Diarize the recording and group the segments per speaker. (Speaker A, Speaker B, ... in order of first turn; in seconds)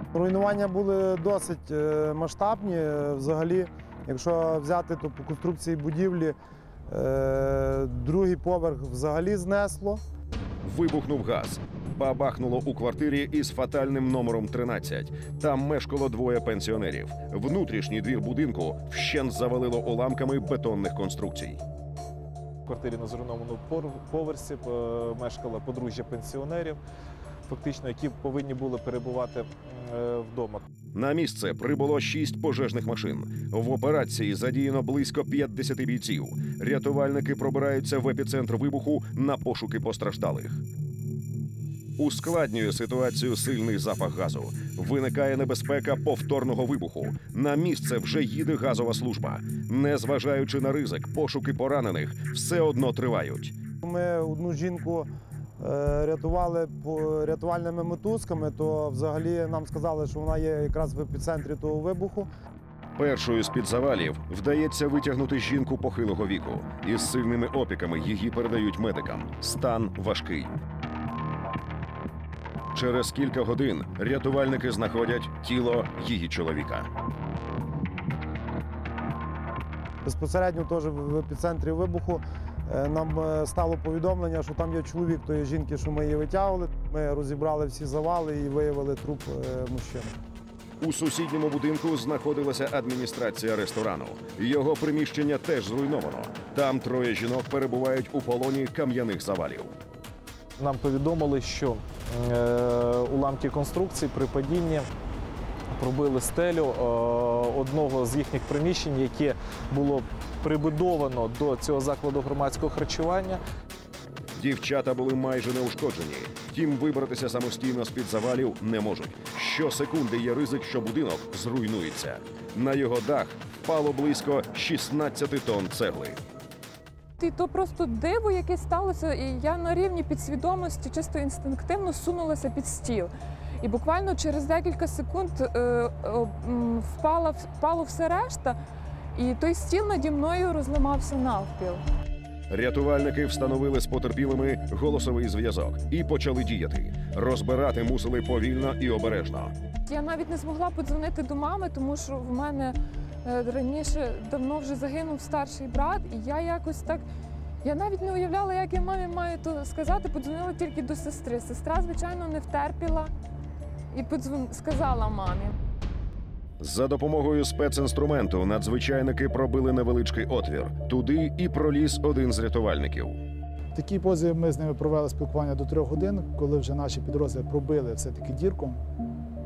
Speaker A: 0.1-6.4, 6.9-10.0, 53.8-62.3, 80.0-90.2
Speaker B: 10.6-21.6, 30.9-40.6, 42.0-53.5, 63.0-70.6, 72.7-76.9, 90.8-99.8, 114.3-126.2, 142.5-149.5, 166.6-173.2
Speaker C: 22.7-26.8, 27.5-30.7, 100.6-104.9, 105.7-113.4
Speaker D: 127.2-138.6, 139.2-141.8, 149.9-157.1, 157.6-163.1, 163.9-165.6
Speaker E: 173.8-178.8